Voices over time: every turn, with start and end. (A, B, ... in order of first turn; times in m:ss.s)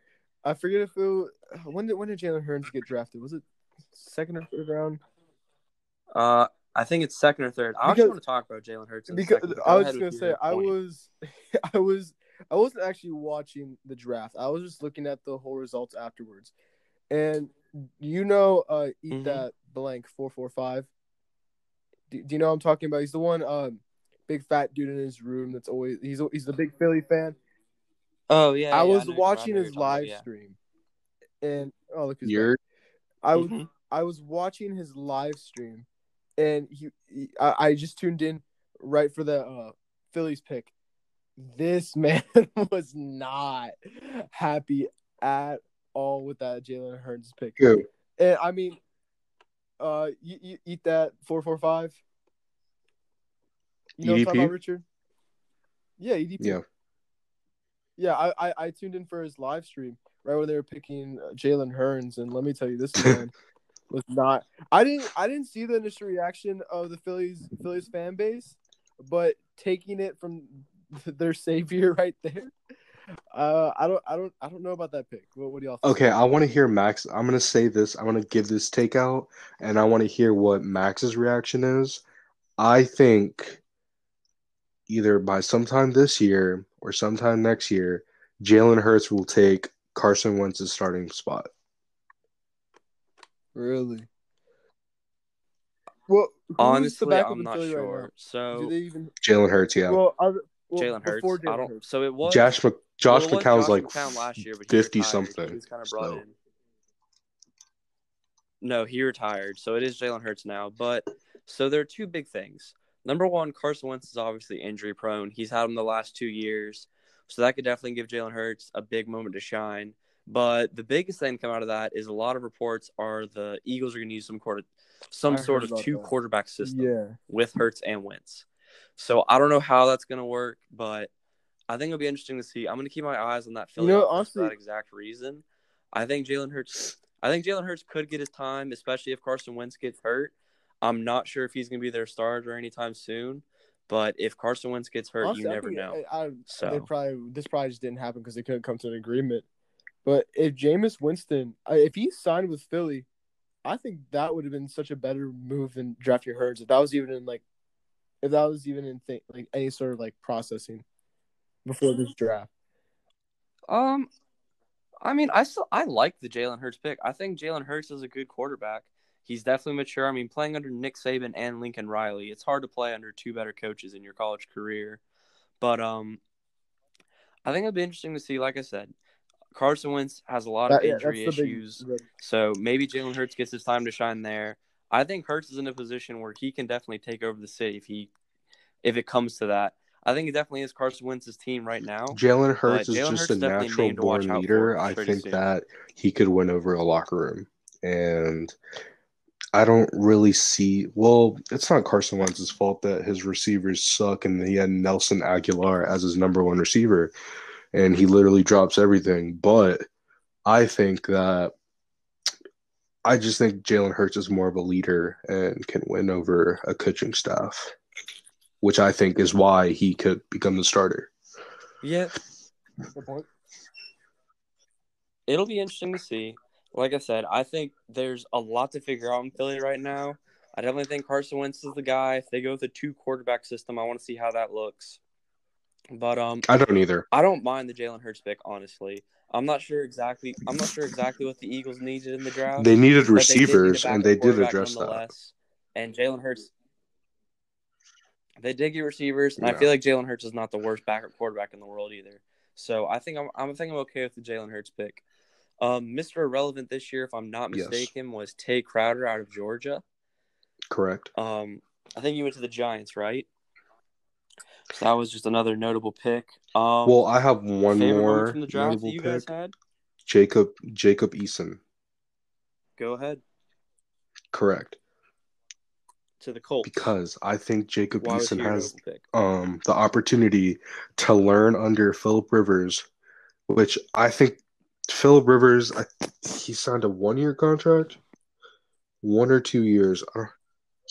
0:00.4-0:05.0 A
0:06.2-0:10.7 B
0:07.9-0:08.2 A
0:09.1-0:16.5 A
0:17.1-0:20.9 A
0:19.1-0:19.5 B
0:22.1-0:27.4 A
0:28.3-0:30.2 B
0:28.7-0:30.6 A
0:31.4-0:32.6 A
0:32.2-0:32.6 C
0:33.2-0:35.9 A
0:33.4-0:33.7 B
0:36.4-0:40.7 A
0:41.4-0:47.6 A
0:47.6-0:47.9 C
0:48.2-0:48.8 A
0:49.8-0:52.0 A
0:54.0-0:54.8 A
0:54.0-0:54.5 C
0:56.0-0:56.6 A
0:58.0-1:03.3 A
1:03.9-1:12.5 A
1:13.3-1:16.0 A
1:15.8-1:22.0 C
1:22.6-1:23.6 C
1:24.9-1:31.5 C
1:33.6-1:34.1 A
1:36.1-1:39.1 A
1:36.6-1:38.7 B
1:39.2-1:40.0 C
1:39.9-1:41.8 A
1:40.8-1:42.5 B
1:42.2-1:46.2 C
1:43.1-1:46.4 B
1:48.6-2:11.1 B
2:05.3-2:06.1 A
2:06.6-2:07.2 A
2:11.7-2:26.0 B
2:13.8-2:14.6 A
2:25.2-2:29.4 A
2:26.5-2:26.9 B
2:30.0-2:33.1 A
2:33.6-2:37.4 A
2:38.2-2:40.8 A
2:41.6-2:42.5 A
2:43.7-2:44.1 B
2:45.0-2:55.0 B
2:55.6-2:56.2 B
2:57.4-2:58.9 B
2:59.5-3:08.1 B
3:00.7-3:02.0 A
3:08.8-3:15.4 B
3:12.1-3:18.6 C
3:19.5-3:27.1 C
3:27.7-3:29.9 C
3:30.5-3:31.5 C
3:33.0-3:37.8 C
3:38.6-3:41.1 C
3:41.8-3:42.1 B
3:43.0-3:43.3 A
3:45.3-3:55.0 B
3:55.9-3:56.5 B
3:56.5-3:57.1 C
3:57.1-4:06.5 B
4:02.6-4:05.1 C
4:08.4-4:15.0 B
4:09.4-4:09.7 C
4:15.6-4:19.8 B
4:17.5-4:17.9 C
4:20.7-4:21.1 C
4:21.2-4:23.3 B
4:24.7-4:27.0 B
4:26.8-4:29.3 C
4:27.7-4:29.5 B
4:30.1-4:31.6 C
4:32.8-4:33.2 B
4:34.3-4:34.8 C
4:36.2-4:36.9 B
4:36.7-4:42.9 C
4:38.0-4:39.0 B
4:43.5-4:48.0 C
4:49.0-4:50.3 C